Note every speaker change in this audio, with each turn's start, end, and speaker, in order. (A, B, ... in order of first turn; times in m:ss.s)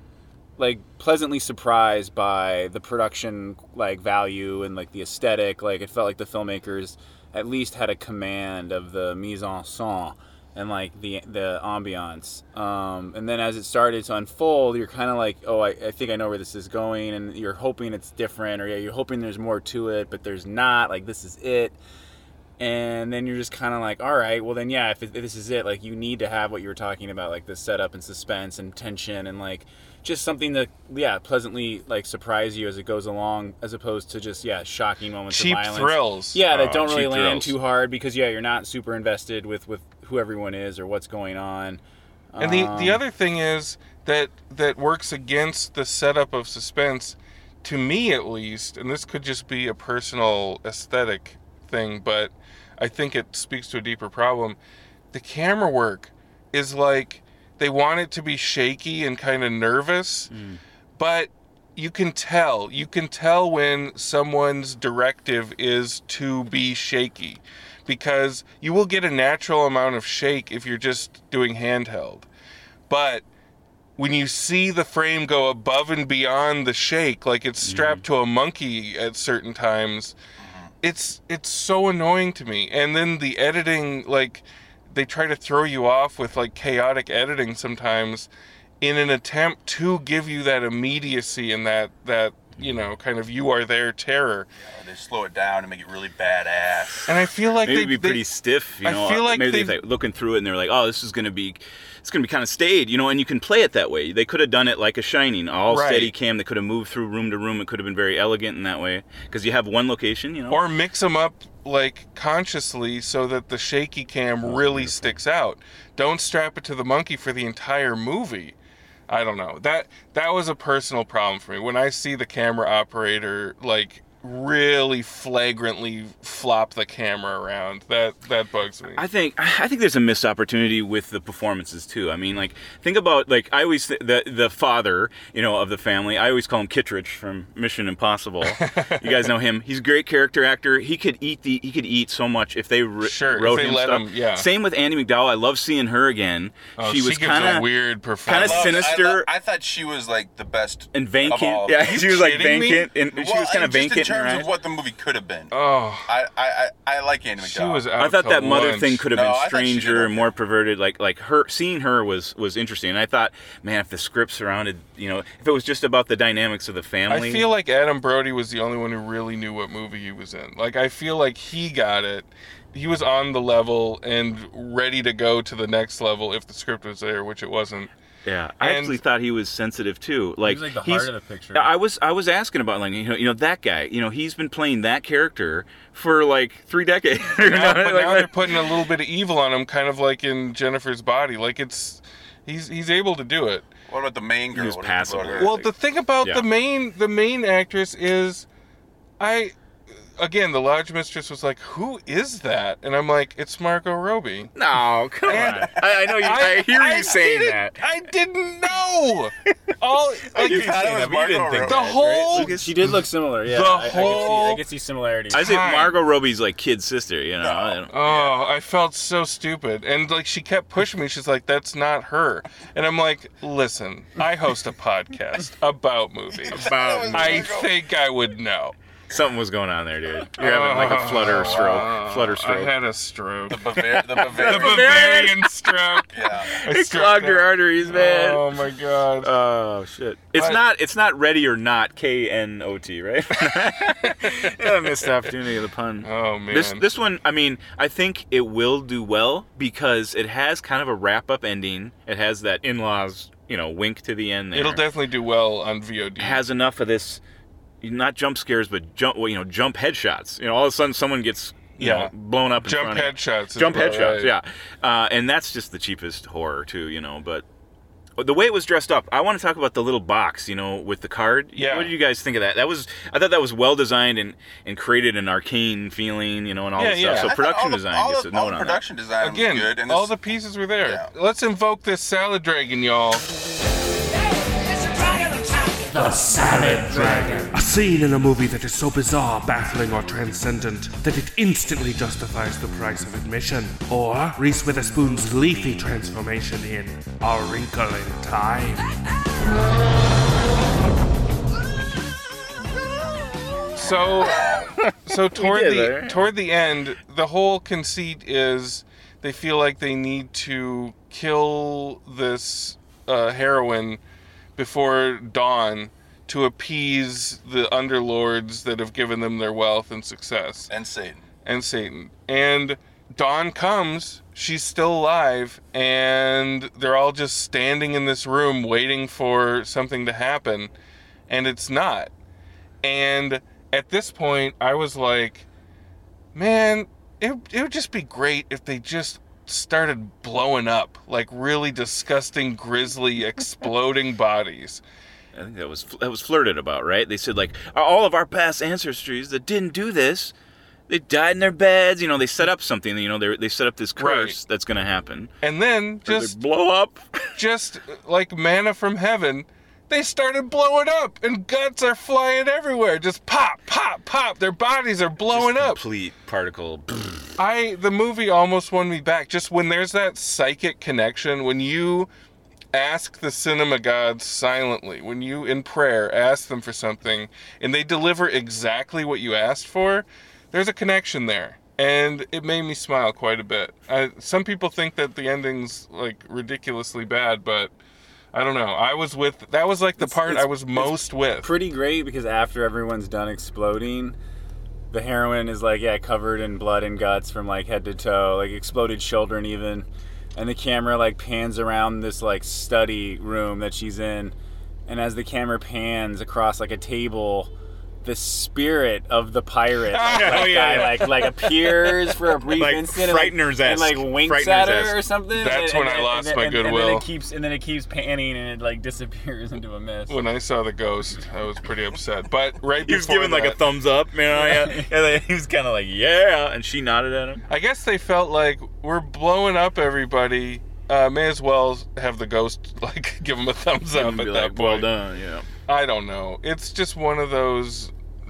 0:00.6-0:21.8 A
0:22.6-0:41.8 A
0:35.3-0:37.4 B
0:37.2-0:37.5 C
0:42.3-0:43.0 A
0:42.4-0:54.6 B
0:55.1-1:00.3 B
1:00.3-1:00.6 C
1:01.0-1:12.3 B
1:12.9-1:13.2 B
1:14.0-1:20.2 B
1:17.6-1:18.0 C
1:20.4-1:20.7 D
1:20.8-1:28.3 B
1:28.8-1:34.5 B
1:34.6-1:37.2 D
1:37.1-1:38.2 B
1:37.6-1:50.6 C
1:38.8-1:39.8 B
1:45.7-1:46.1 B
1:50.5-1:58.6 B
1:54.4-1:55.0 C
1:59.1-2:09.0 B
2:09.0-2:29.3 C
2:18.5-2:19.2 B
2:23.0-2:24.5 B
2:26.8-2:28.9 B
2:28.3-2:32.0 D
2:30.9-2:34.5 C
2:31.9-2:32.9 B
2:33.1-2:35.5 D
2:35.5-2:36.1 B
2:36.1-2:37.9 D
2:37.4-2:39.1 B
2:38.0-2:47.5 C
2:39.1-2:40.3 D
2:47.1-2:57.9 B
2:58.2-3:08.8 C
2:58.6-2:59.0 B
3:00.4-3:01.7 A
3:07.4-3:13.7 B
3:13.9-3:15.6 D
3:14.6-3:16.5 C
3:15.4-3:18.5 B
3:19.2-3:19.6 B
3:20.2-3:24.5 B
3:24.6-3:27.8 C
3:25.3-3:31.0 B
3:25.3-3:25.7 A
3:30.3-3:32.8 C
3:30.3-3:32.3 D
3:31.6-3:34.6 B
3:32.3-3:35.4 A
3:35.3-3:36.0 B
3:35.3-3:37.9 C
3:37.4-3:38.4 D
3:37.9-3:48.8 B
3:46.3-3:47.7 D
3:46.5-3:47.6 C
3:49.1-3:52.7 C
3:50.4-3:59.3 B
3:53.5-3:55.1 D
3:53.9-3:58.6 C
3:56.1-3:56.6 D
3:59.2-4:14.8 C
4:00.4-4:00.6 B
4:03.4-4:04.5 B
4:06.0-4:06.8 B
4:14.5-4:16.4 B
4:16.2-4:17.2 C
4:17.8-4:27.4 C
4:21.8-4:24.3 B
4:28.2-4:38.8 C
4:31.6-4:31.9 B
4:36.8-4:37.3 B
4:37.1-4:40.1 D
4:39.2-4:43.3 B
4:40.8-4:41.1 D
4:44.8-4:58.9 E
4:46.9-4:47.4 A
5:03.8-5:14.0 B
5:04.8-5:06.3 C
5:14.6-5:20.7 B
5:20.7-5:21.3 D
5:21.4-5:30.7 B
5:31.3-5:32.1 B
5:32.8-5:35.5 B
5:36.3-5:44.8 B
5:45.3-5:50.3 C
5:50.9-5:55.3 C
5:54.0-5:54.4 B
5:55.4-5:56.4 B
5:56.0-5:57.3 C
5:57.4-6:05.8 B
6:05.3-6:07.4 C
6:07.4-6:12.1 B
6:12.7-6:27.7 B
6:28.3-6:31.5 B
6:30.0-6:34.2 A
6:34.9-6:44.3 A
6:44.9-6:47.5 A
6:48.0-7:00.2 A
6:49.9-6:51.3 B
6:50.1-6:51.5 C
6:52.5-6:55.0 C
6:55.3-6:57.1 B
7:00.1-7:03.6 B
7:02.8-7:07.4 C
7:04.4-7:04.9 A
7:07.5-7:14.9 B
7:13.9-7:15.5 C
7:15.7-7:17.9 B